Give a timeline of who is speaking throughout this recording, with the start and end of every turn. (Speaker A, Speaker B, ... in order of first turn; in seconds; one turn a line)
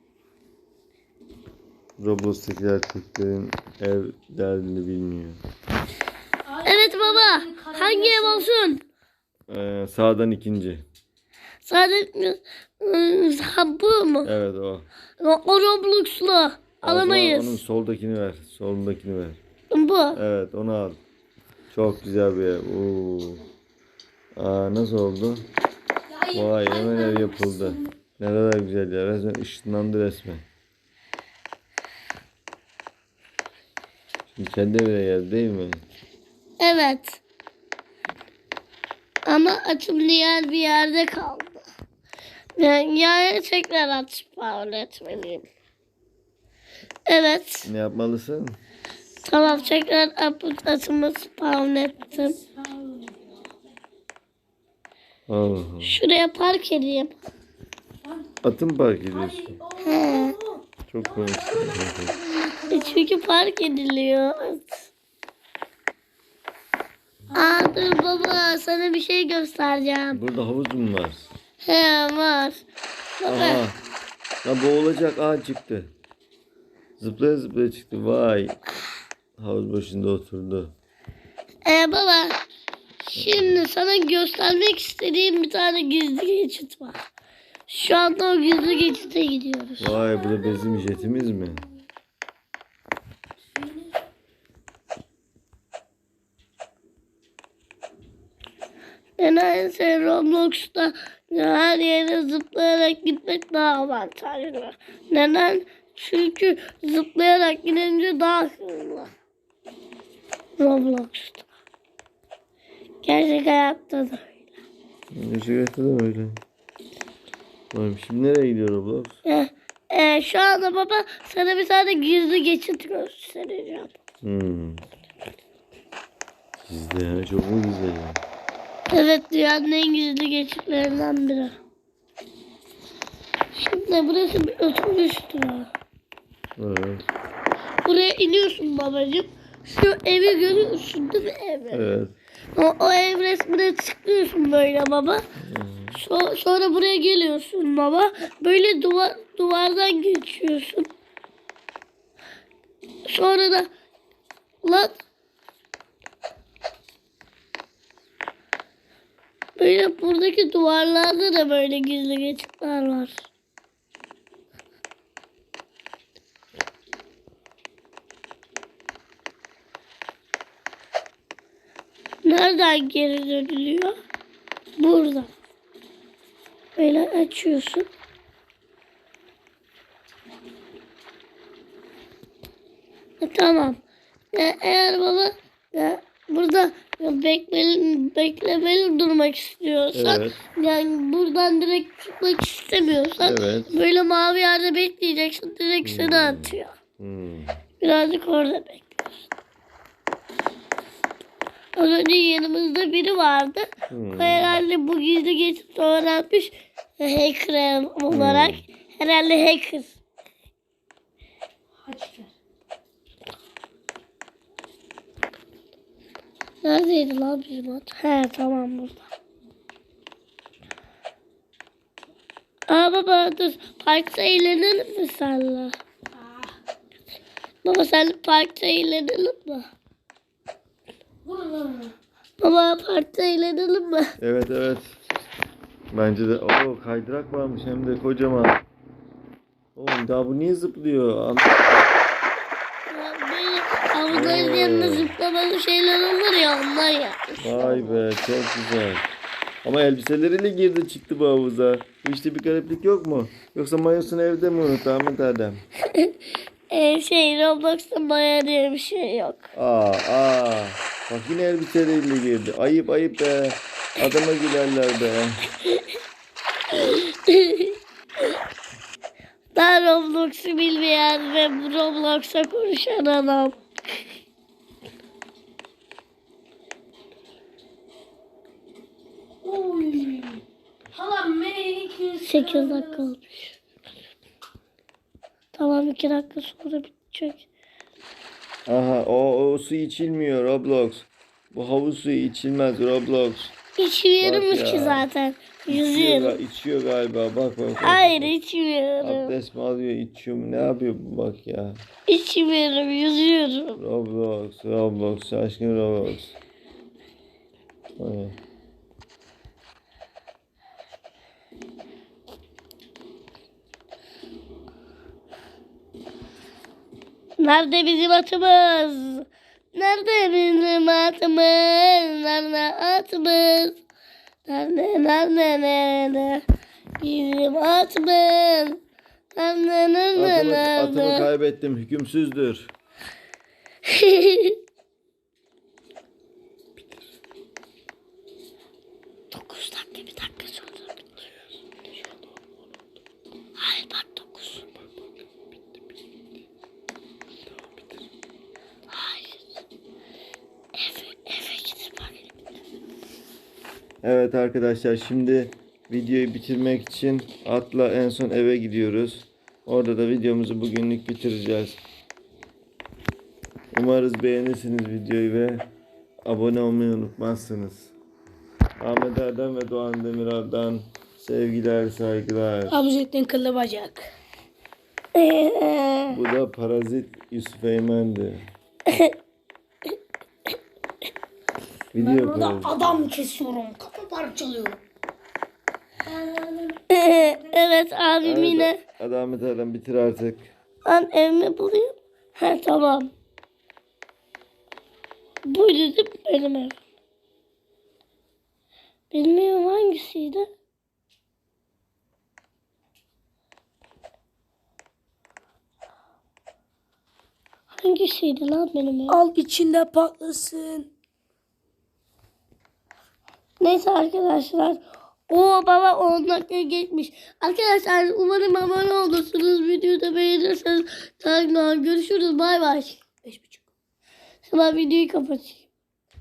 Speaker A: 2.0-5.4
Speaker B: 6.4-8.5
Speaker C: 6.6-8.8
Speaker A: 9.5-10.8
Speaker C: 11.6-14.3
Speaker A: 14.2-14.8
Speaker C: 15.2-17.6
Speaker A: 16.8-19.4
Speaker C: 19.7-20.2
Speaker A: 20.1-21.0
Speaker A: 21.7-23.4
Speaker A: 24.4-25.4
Speaker B: 26.1-27.9
Speaker A: 26.3-30.4
Speaker A: 34.4-35.8
Speaker C: 36.6-37.2
Speaker C: 39.2-41.6
Speaker C: 42.6-45.5
Speaker C: 47.0-47.7
Speaker A: 47.6-48.6
Speaker C: 49.2-52.4
Speaker B: 49.5-49.7
Speaker B: 52.1-53.5
Speaker A: 55.3-56.0
Speaker C: 55.8-57.1
Speaker A: 58.4-59.6
Speaker B: 59.1-63.1
Speaker C: 59.8-60.4
Speaker A: 60.9-62.1
Speaker C: 62.7-64.8
Speaker B: 67.3-67.8
Speaker C: 67.3-70.2
Speaker A: 70.1-71.3
Speaker C: 71.6-72.6
Speaker C: 73.2-73.6
Speaker A: 73.2-73.8
Speaker A: 74.4-75.9
Speaker A: 77.0-78.5
Speaker A: 79.4-80.7
Speaker C: 81.6-82.4
Speaker C: 83.1-87.0
Speaker A: 83.2-83.6
Speaker C: 87.7-90.0
Speaker A: 89.8-91.6
Speaker B: 93.5-94.0
Speaker C: 99.2-109.1
Speaker C: 110.6-111.5
Speaker C: 113.0-114.4
Speaker A: 115.1-116.4
Speaker A: 117.7-119.2
Speaker C: 119.2-123.9
Speaker A: 124.2-124.8
Speaker A: 126.6-128.2
Speaker C: 128.9-131.6
Speaker C: 133.5-135.7
Speaker A: 136.6-137.0
Speaker C: 137.8-141.8
Speaker A: 141.7-142.1
Speaker C: 142.5-145.2
Speaker A: 145.4-146.0
Speaker C: 145.9-150.9
Speaker C: 153.1-153.7
Speaker C: 154.6-154.9
Speaker C: 159.6-163.2
Speaker C: 172.2-174.0
Speaker C: 174.8-175.3
Speaker C: 176.8-177.9
Speaker C: 183.2-183.8
Speaker C: 184.3-196.7
Speaker A: 189.9-190.4
Speaker A: 193.2-193.8
Speaker A: 195.8-197.6
Speaker C: 197.8-199.2
Speaker C: 201.8-209.9
Speaker A: 203.9-204.6
Speaker A: 208.1-208.6
Speaker B: 211.8-212.3
Speaker C: 216.6-219.1
Speaker C: 222.7-225.8
Speaker B: 226.2-226.5
Speaker C: 227.6-229.7
Speaker B: 231.2-231.9
Speaker C: 232.4-234.1
Speaker A: 234.2-234.9
Speaker A: 235.9-238.6
Speaker A: 239.8-241.6
Speaker C: 242.9-247.9
Speaker A: 244.1-245.1
Speaker A: 247.4-249.0
Speaker A: 249.6-255.6
Speaker C: 255.9-256.1
Speaker C: 256.7-259.4
Speaker A: 259.5-265.5
Speaker C: 266.7-268.3
Speaker C: 269.5-273.6
Speaker B: 279.4-283.1
Speaker C: 282.2-283.5
Speaker C: 285.5-287.4
Speaker A: 288.7-293.5
Speaker C: 293.8-296.4
Speaker A: 294.2-295.0
Speaker A: 295.7-298.3
Speaker C: 297.8-299.4
Speaker A: 299.0-301.8
Speaker C: 302.1-303.8
Speaker A: 303.8-306.3
Speaker A: 308.0-308.3
Speaker C: 317.4-323.8
Speaker C: 324.5-326.4
Speaker C: 327.0-328.8
Speaker C: 329.3-331.3
Speaker A: 330.1-332.7
Speaker C: 333.9-334.6
Speaker C: 339.3-340.8
Speaker C: 343.6-344.6
Speaker C: 348.9-349.4
Speaker C: 350.8-352.1
Speaker A: 354.0-361.8
Speaker A: 363.7-365.7
Speaker A: 366.2-367.9
Speaker A: 368.8-372.8
Speaker B: 372.7-374.1
Speaker C: 375.1-376.2
Speaker A: 376.1-378.4
Speaker C: 378.9-379.1
Speaker A: 381.9-383.0
Speaker B: 381.9-384.8
Speaker B: 386.1-387.6
Speaker C: 386.9-388.8
Speaker A: 388.2-390.5
Speaker C: 390.8-393.1
Speaker C: 395.4-396.8
Speaker C: 399.1-400.5
Speaker C: 407.7-409.2
Speaker B: 409.1-410.9
Speaker C: 413.6-423.0
Speaker B: 423.2-423.7
Speaker C: 424.4-425.6